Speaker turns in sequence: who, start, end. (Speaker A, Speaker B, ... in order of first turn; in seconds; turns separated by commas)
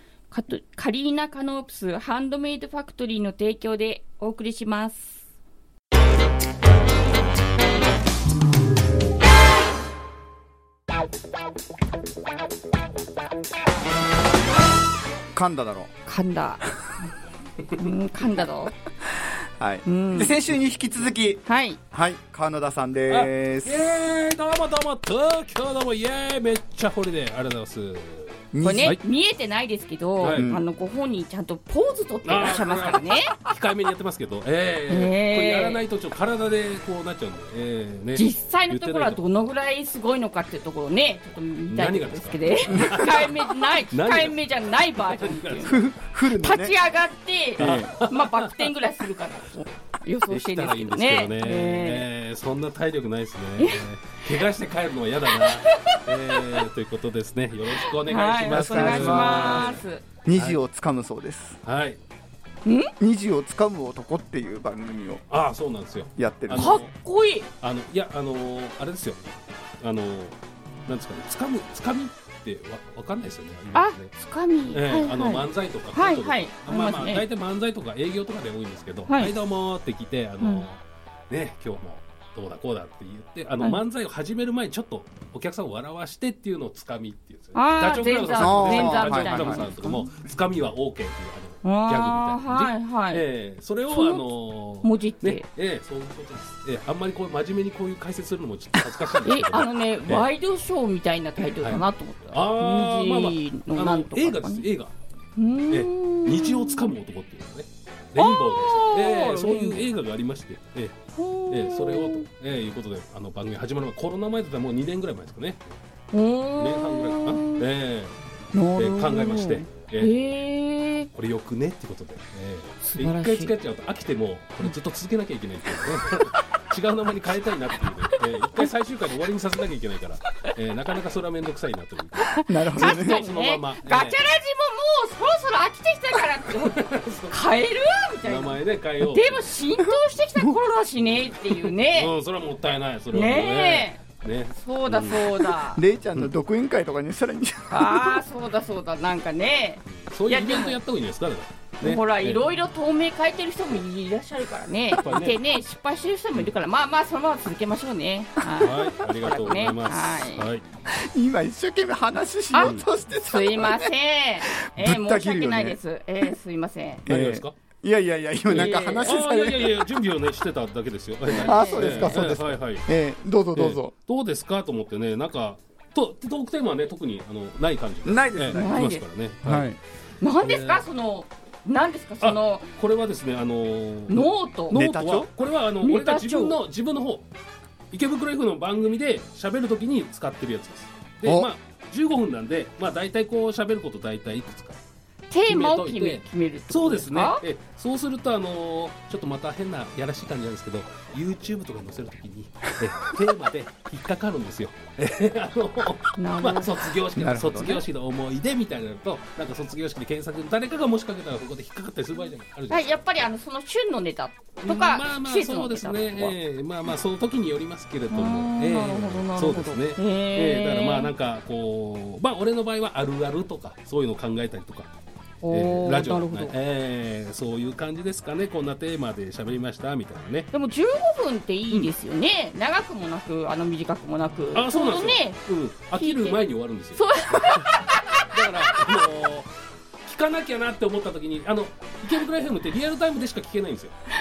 Speaker A: 0.3-5.2, Speaker B: 15.3-15.9, Speaker A: 16.1-16.6, Speaker A: 17.7-18.8, Speaker B: 19.4-23.8, Speaker A: 19.9-20.4, Speaker A: 21.5-21.8, Speaker C: 23.1-29.0, Speaker B: 28.5-29.0, Speaker A: 28.6-33.4, Speaker C: 30.2-30.5, Speaker B: 30.2-30.6, Speaker C: 32.2-39.2, Speaker A: 34.9-35.8, Speaker A: 38.1-52.1, Speaker C: 41.7-44.4, Speaker C: 45.0-45.8, Speaker B: 45.7-46.8, Speaker B: 47.6-47.9, Speaker C: 47.6-48.7, Speaker C: 50.3-60.6, Speaker A: 53.6-53.9, Speaker A: 55.3-56.6, Speaker A: 57.8-60.0, Speaker B: 58.5-61.6, Speaker C: 61.6-62.0, Speaker A: 62.7-62.9, Speaker B: 63.0-65.2, Speaker C: 65.3-66.9, Speaker B: 66.2-66.8, Speaker A: 66.5-67.5, Speaker C: 67.6-74.1, Speaker A: 73.7-77.2, Speaker C: 74.7-80.8, Speaker A: 79.1-79.3, Speaker A: 80.4-80.7, Speaker C: 81.3-100.3, Speaker A: 87.5-90.1, Speaker B: 88.3-89.7, Speaker A: 91.6-93.2, Speaker A: 93.9-94.3, Speaker A: 94.8-95.5, Speaker A: 99.2-104.7, Speaker C: 101.4-104.9, Speaker A: 105.4-106.9, Speaker C: 105.7-111.0, Speaker A: 108.2-109.8, Speaker A: 111.2-112.3, Speaker C: 111.5-115.8, Speaker A: 116.1-117.7, Speaker C: 116.6-118.2, Speaker A: 118.5-121.1, Speaker C: 118.8-120.2, Speaker C: 121.1-134.2, Speaker A: 122.8-123.5, Speaker A: 132.4-142.1, Speaker B: 132.5-133.2, Speaker C: 136.6-137.3, Speaker C: 138.2-139.5, Speaker C: 141.5-145.5, Speaker A: 143.1-144.0, Speaker A: 144.6-145.8, Speaker B: 145.8-148.2, Speaker A: 147.7-150.8, Speaker C: 149.9-152.5, Speaker A: 151.8-160.5, Speaker C: 154.9-155.4, Speaker C: 158.6-160.6, Speaker B: 160.9-165.8, Speaker A: 162.5-167.0, Speaker C: 162.6-162.9, Speaker B: 167.1-169.9, Speaker C: 167.1-167.6, Speaker A: 168.5-169.1, Speaker C: 168.5-172.9, Speaker B: 171.3-173.9, Speaker A: 171.4-172.2, Speaker C: 173.5-179.7, Speaker B: 178.1-178.8, Speaker A: 178.5-179.1, Speaker B: 179.4-179.8, Speaker A: 180.2-182.7, Speaker C: 180.4-180.8, Speaker C: 182.2-187.3, Speaker A: 184.1-184.8, Speaker B: 184.7-185.3, Speaker A: 185.8-186.6, Speaker C: 187.9-194.8, Speaker B: 191.2-191.5, Speaker A: 195.3-197.4, Speaker C: 195.5-213.0, Speaker A: 206.2-206.8, Speaker B: 207.2-207.8, Speaker A: 212.7-216.3, Speaker C: 214.6-224.9, Speaker A: 218.1-221.1, Speaker A: 225.4-226.5, Speaker C: 225.5-230.5, Speaker A: 230.5-235.4, Speaker C: 234.5-239.5, Speaker A: 236.0-236.4, Speaker A: 236.9-239.0, Speaker C: 240.0-243.9